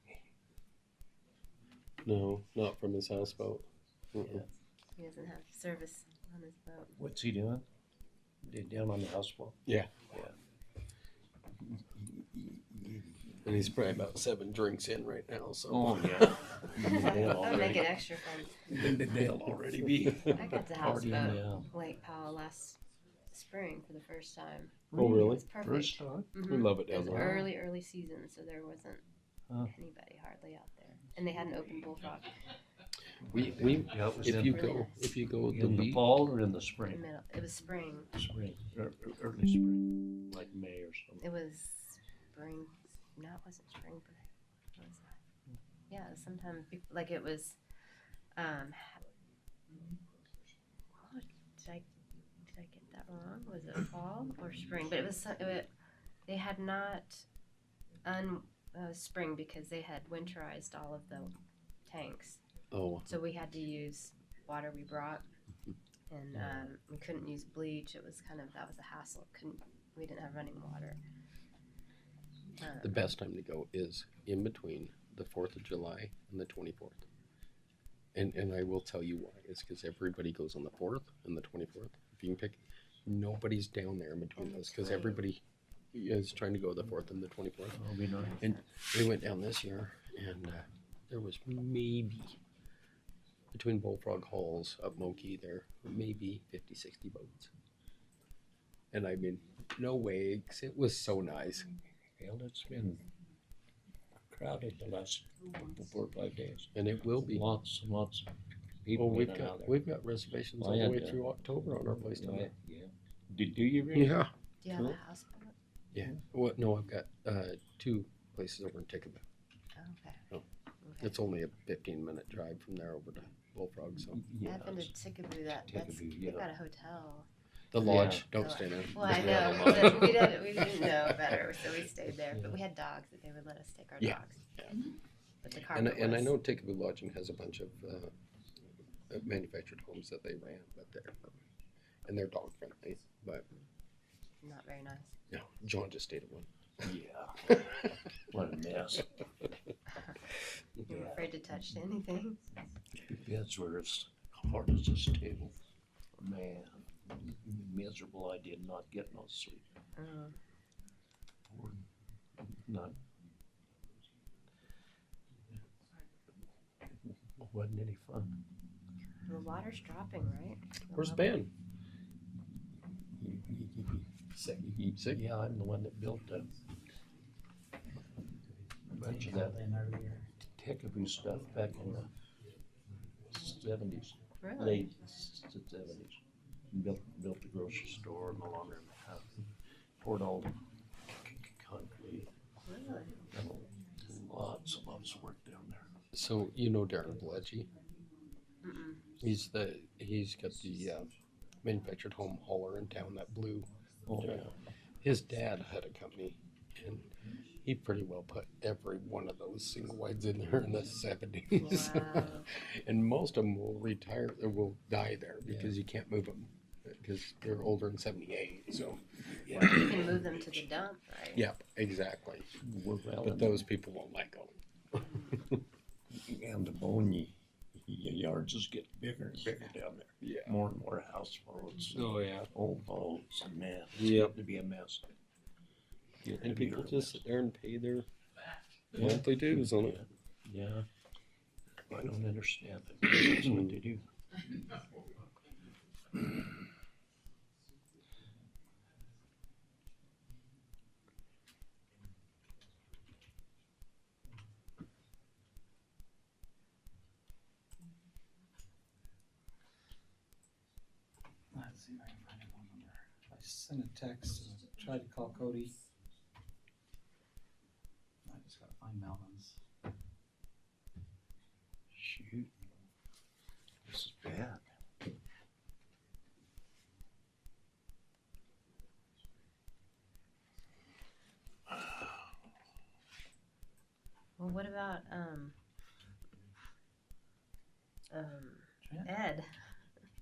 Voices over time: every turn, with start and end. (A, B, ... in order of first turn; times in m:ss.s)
0:02.0-0:04.4 A
0:05.0-0:06.9 B
0:07.0-0:07.6 C
0:08.4-0:09.6 C
0:09.7-0:09.9 A
0:11.8-0:13.2 C
0:13.4-0:16.6 A
0:15.7-0:18.0 C
0:16.8-0:18.6 B
0:18.6-0:21.7 C
0:20.3-0:22.8 B
0:23.3-0:29.0 B
0:24.9-0:26.3 C
0:24.9-0:25.4 A
0:26.4-0:27.4 A
0:29.7-0:32.3 B
0:33.2-0:36.0 A
0:33.8-0:34.6 C
0:34.2-0:35.0 B
0:35.5-0:37.0 C
0:36.9-0:38.1 B
0:38.1-0:41.2 C
0:41.2-0:45.2 B
0:45.9-0:47.6 B
0:48.4-0:49.0 B
0:51.0-0:51.8 B
0:52.5-0:55.7 B
0:56.2-0:57.2 B
0:58.0-1:01.3 B
1:01.9-1:02.4 B
1:02.7-1:03.1 A
1:03.0-1:05.3 B
1:06.1-1:11.0 B
1:12.6-1:13.0 B
1:12.8-1:17.0 A
1:18.1-1:25.4 A
1:24.4-1:25.2 B
1:25.9-1:27.8 A
1:27.7-1:28.5 C
1:28.4-1:32.4 A
1:33.5-1:37.5 A
1:38.9-1:41.7 A
1:42.2-1:43.0 C
1:44.3-1:48.3 C
1:46.7-1:47.4 A
1:48.8-1:49.8 C
1:49.0-1:52.5 A
1:50.6-1:51.3 C
1:52.0-1:55.0 C
1:53.9-1:54.3 A
1:54.6-1:55.5 B
1:55.9-1:59.2 A
1:59.8-2:00.2 B
2:00.8-2:01.1 B
2:01.0-2:04.2 A
2:04.1-2:04.9 C
2:04.4-2:07.3 B
2:05.6-2:06.5 C
2:07.7-2:11.2 A
2:07.7-2:08.3 C
2:08.3-2:14.4 B
2:09.2-2:10.0 C
2:14.0-2:14.7 A
2:15.4-2:16.3 B
2:15.7-2:18.1 A
2:19.1-2:21.4 A
2:22.1-2:23.4 A
2:24.4-2:25.1 B
2:25.3-2:26.9 A
2:26.8-2:27.6 C
2:27.5-2:27.9 A
2:28.3-2:29.1 C
2:30.9-2:32.4 B
2:30.9-2:31.2 C
2:33.0-2:35.6 C
2:36.2-2:39.6 C
2:40.0-2:40.4 B
2:41.5-2:41.8 C
2:42.4-2:43.0 C
2:47.4-2:48.4 C
2:49.3-2:51.4 B
2:50.9-2:51.5 A
2:53.2-2:54.1 C
2:54.3-2:55.2 A
2:55.0-2:56.5 C
2:58.9-2:59.7 C
2:59.0-3:00.2 D
3:00.6-3:02.1 C
3:03.3-3:06.2 C
3:04.4-3:04.8 B
3:06.7-3:09.4 C
3:10.0-3:12.3 C
3:12.6-3:13.1 B
3:13.3-3:15.9 C
3:16.1-3:17.7 A
3:18.6-3:19.0 B
3:19.2-3:21.1 A
3:21.6-3:23.7 A
3:24.1-3:24.6 C
3:25.0-3:40.2 A
3:31.6-3:32.5 B
3:35.5-3:35.7 C
3:39.4-3:40.2 C
3:39.6-3:41.4 B
3:41.3-3:42.6 A
3:42.6-3:43.6 C
3:43.2-3:44.5 A
3:45.3-3:45.6 A
3:46.1-3:55.1 C
3:50.2-3:50.5 A
3:51.9-3:52.5 A
3:53.9-3:54.3 A
3:56.2-3:57.2 C
3:56.4-3:58.1 A
3:58.9-4:00.0 A
3:58.9-4:00.8 C
4:01.9-4:04.0 C
4:03.4-4:03.7 A
4:21.5-4:25.8 D
4:28.2-4:29.6 D
4:31.9-4:32.5 C
4:33.8-4:34.6 C
4:44.4-4:45.6 B
4:48.1-4:49.6 B
4:48.8-4:49.1 D